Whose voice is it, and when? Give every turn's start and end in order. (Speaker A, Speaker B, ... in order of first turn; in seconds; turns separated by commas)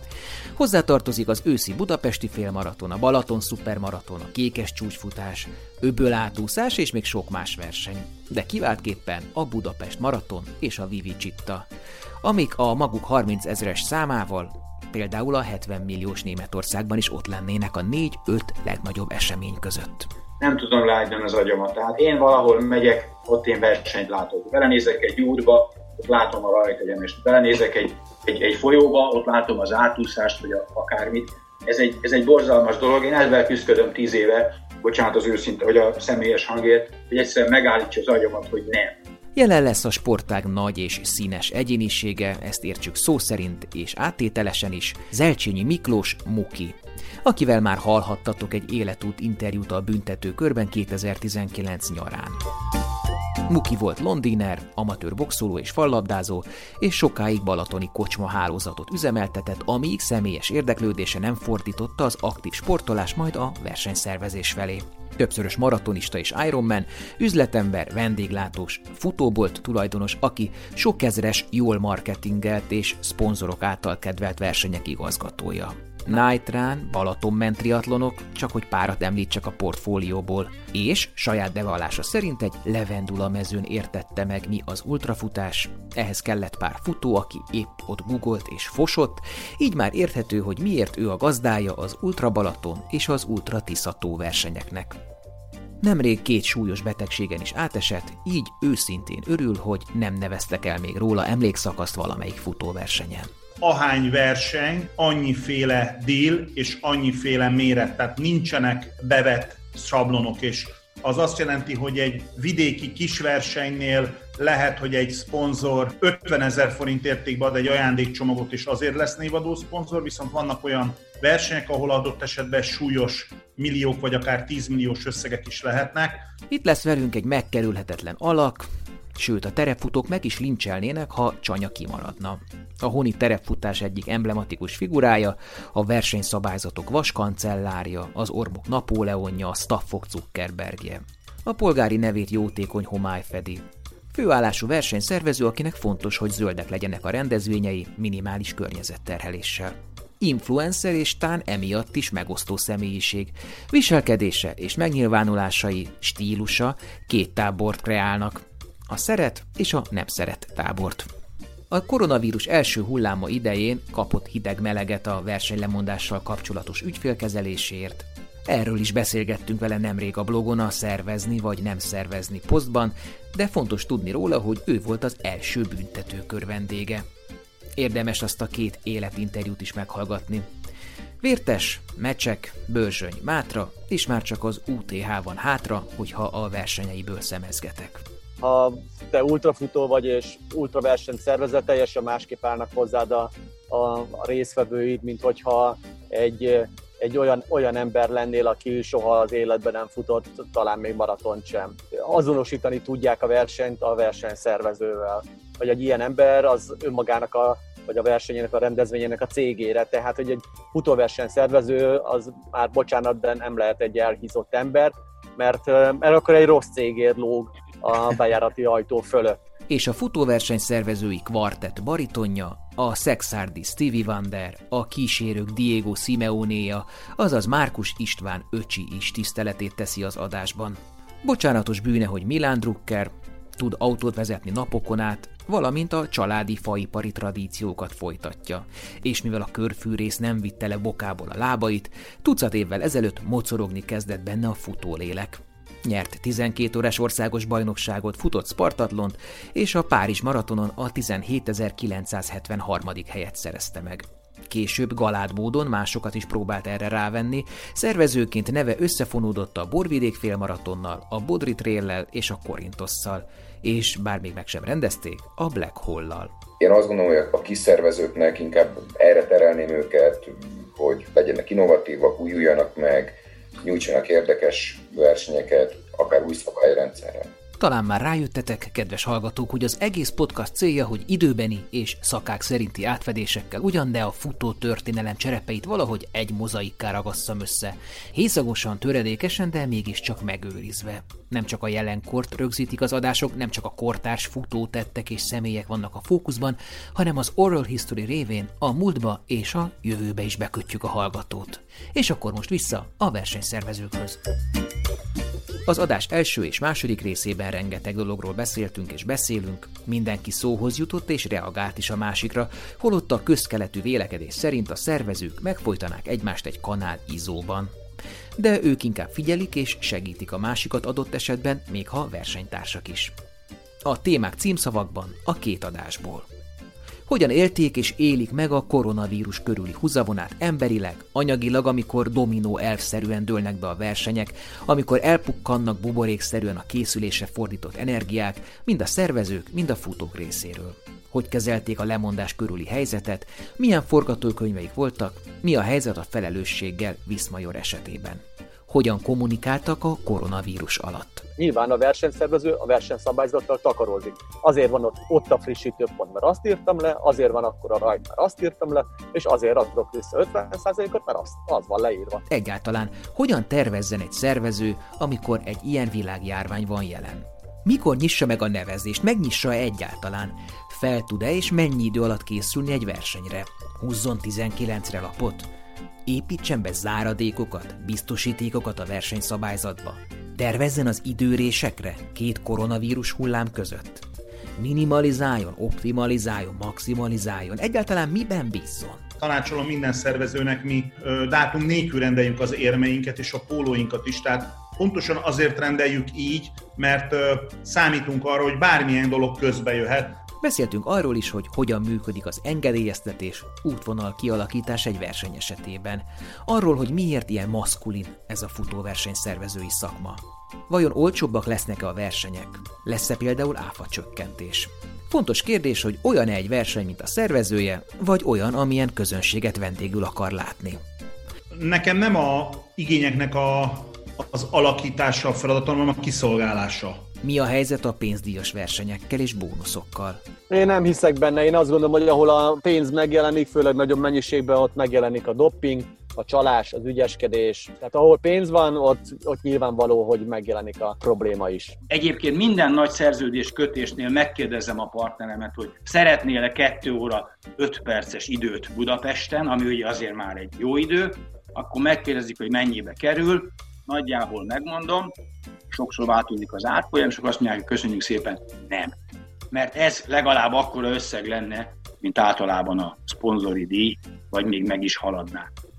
Speaker A: 0.6-11.7, Speaker A: 12.2-20.1, Speaker B: 20.4-39.0, Speaker A: 39.3-52.4, Speaker A: 53.5-95.0, Speaker A: 95.8-103.3, Speaker C: 103.6-126.3, Speaker A: 126.5-161.1, Speaker A: 161.7-177.1, Speaker A: 177.8-180.5, Speaker A: 181.2-188.0, Speaker D: 188.4-219.4, Speaker A: 219.7-266.3, Speaker E: 266.6-277.3, Speaker A: 277.6-304.2, Speaker A: 305.6-317.7, Speaker A: 318.4-323.1, Speaker A: 323.8-326.3, Speaker A: 327.1-351.3, Speaker D: 351.4-362.2, Speaker A: 362.3-375.5, Speaker A: 376.1-384.1, Speaker A: 384.6-389.1, Speaker C: 389.2-400.2, Speaker A: 400.4-420.8, Speaker C: 421.5-427.1, Speaker A: 427.2-430.2, Speaker D: 430.5-441.8, Speaker B: 441.9-455.1, Speaker B: 455.7-458.9, Speaker B: 459.5-465.5